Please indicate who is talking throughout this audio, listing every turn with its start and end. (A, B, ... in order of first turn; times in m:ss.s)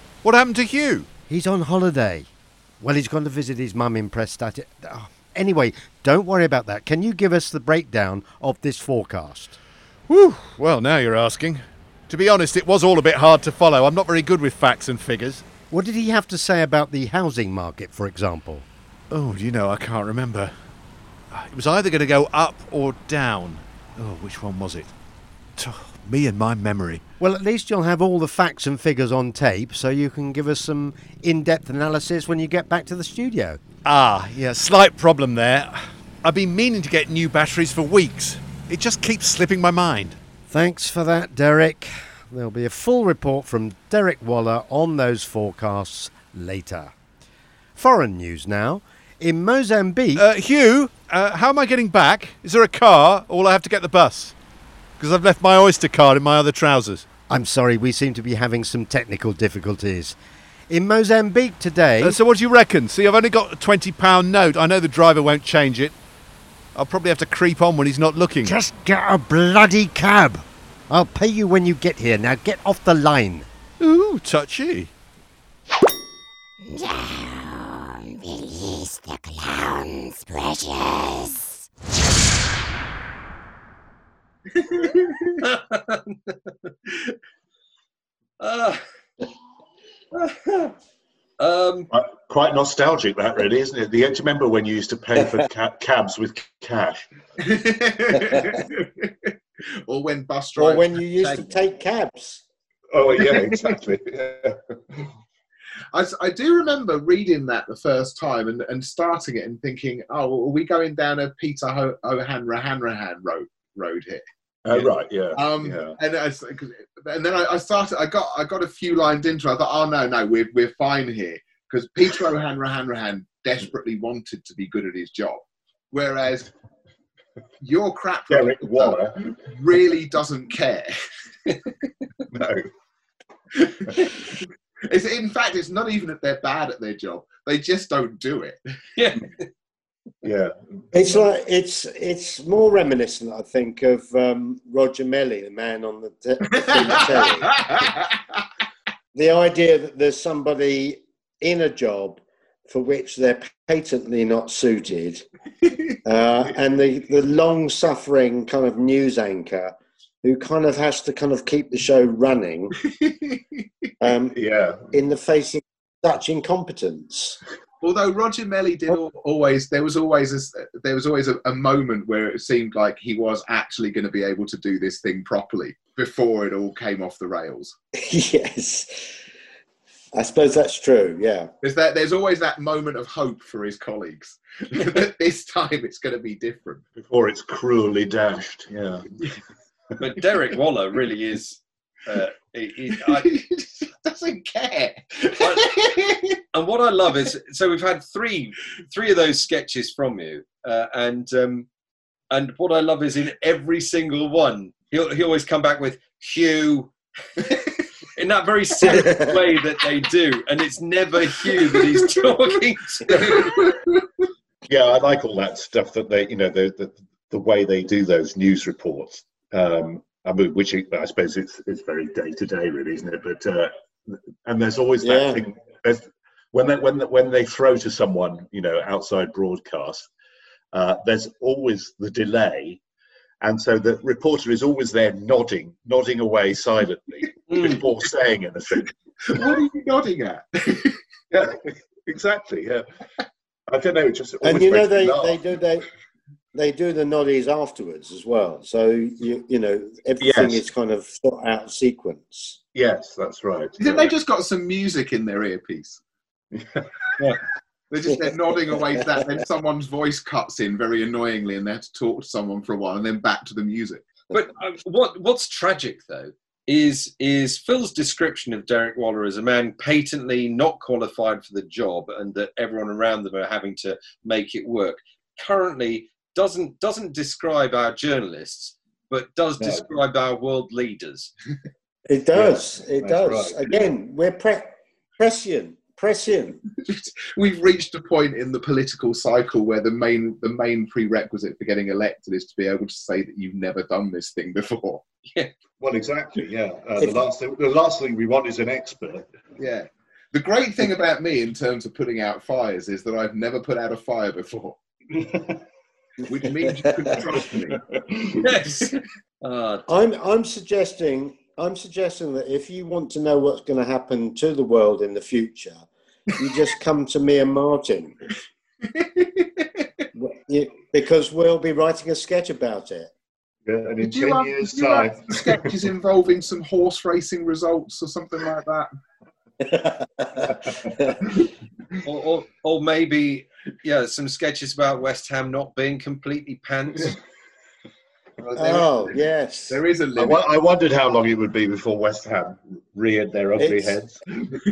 0:00.2-0:01.1 A
0:01.3-0:02.3 B
0:02.8-0:09.6 B
0:10.1-0:15.4 A
0:15.7-0:18.6 B
0:19.1-0:20.5 A
0:21.3-0:24.9 A
0:25.6-0:27.0 A
0:27.2-0:33.6 B
0:33.8-0:40.2 A
0:40.5-0:46.9 B
0:47.8-0:50.2 B
0:50.1-0:54.3 A
0:55.0-0:57.0 A
0:57.3-1:00.2 B
1:00.7-1:02.2 B
1:02.0-1:05.9 A
1:06.7-1:08.5 A
1:08.4-1:13.4 B
1:13.8-1:14.9 A
1:16.7-1:17.5 B
1:18.4-1:21.2 B
1:24.6-1:25.4 C
1:25.4-1:27.2 D
1:28.4-1:28.8 D
1:30.1-1:30.7 D
1:31.4-1:31.9 D
1:31.9-1:37.1 E
1:37.4-1:39.3 C
1:39.8-1:41.5 C
1:40.6-1:42.4 F
1:42.9-1:45.1 E
1:43.2-1:43.7 C
1:45.9-1:54.2 C
1:54.6-1:56.0 E
1:55.3-2:06.5 C
2:07.6-2:10.9 C
2:08.3-2:09.3 E
2:12.3-2:12.7 E
2:13.8-2:14.3 C
2:14.9-2:18.6 C
2:19.0-2:19.4 D
2:20.2-2:21.2 E
2:20.9-2:27.9 F
2:27.4-2:27.9 C
2:29.1-2:35.2 F
2:36.0-2:42.7 F
2:43.0-2:43.6 C
2:44.0-2:47.4 F
2:44.3-2:44.9 E
2:47.8-2:57.7 C
2:58.0-2:59.1 F
3:00.1-3:01.5 F
3:01.6-3:06.8 C
3:07.0-3:09.1 E
3:10.0-3:13.4 D
3:13.0-3:16.4 C
3:15.4-3:15.7 D
3:16.5-3:21.7 D
3:22.3-3:27.6 D
3:28.2-3:33.7 D
3:33.4-3:33.9 C
3:34.7-3:50.1 E
3:45.0-3:45.4 F
3:50.7-3:52.8 E
3:53.4-3:59.6 E
3:57.5-3:57.8 D
3:59.3-4:01.0 C
4:01.3-4:02.9 E
4:03.7-4:05.4 E
4:04.4-4:05.9 F
4:06.5-4:12.6 F
4:10.2-4:10.6 E
4:12.7-4:14.1 E
4:13.8-4:16.0 C
4:16.6-4:16.9 E
4:17.9-4:24.0 C
4:24.3-4:41.3 D
4:39.6-4:39.8 E
4:42.1-4:46.6 F
4:42.3-4:43.9 E
4:46.8-4:55.0 C
4:55.8-4:59.3 E
4:59.6-5:04.8 C
5:06.3-5:07.8 C
5:07.8-5:08.5 E
5:08.4-5:09.8 D
5:09.9-5:18.2 F
5:18.9-5:19.8 C
5:20.2-5:23.1 F
5:23.6-5:25.8 E
5:24.0-5:28.9 C
5:29.6-5:31.2 F
5:32.0-5:37.2 D
5:38.4-5:39.2 C
5:38.6-5:39.8 F
5:39.7-5:40.4 C
5:40.2-5:44.6 E
5:43.6-5:43.9 F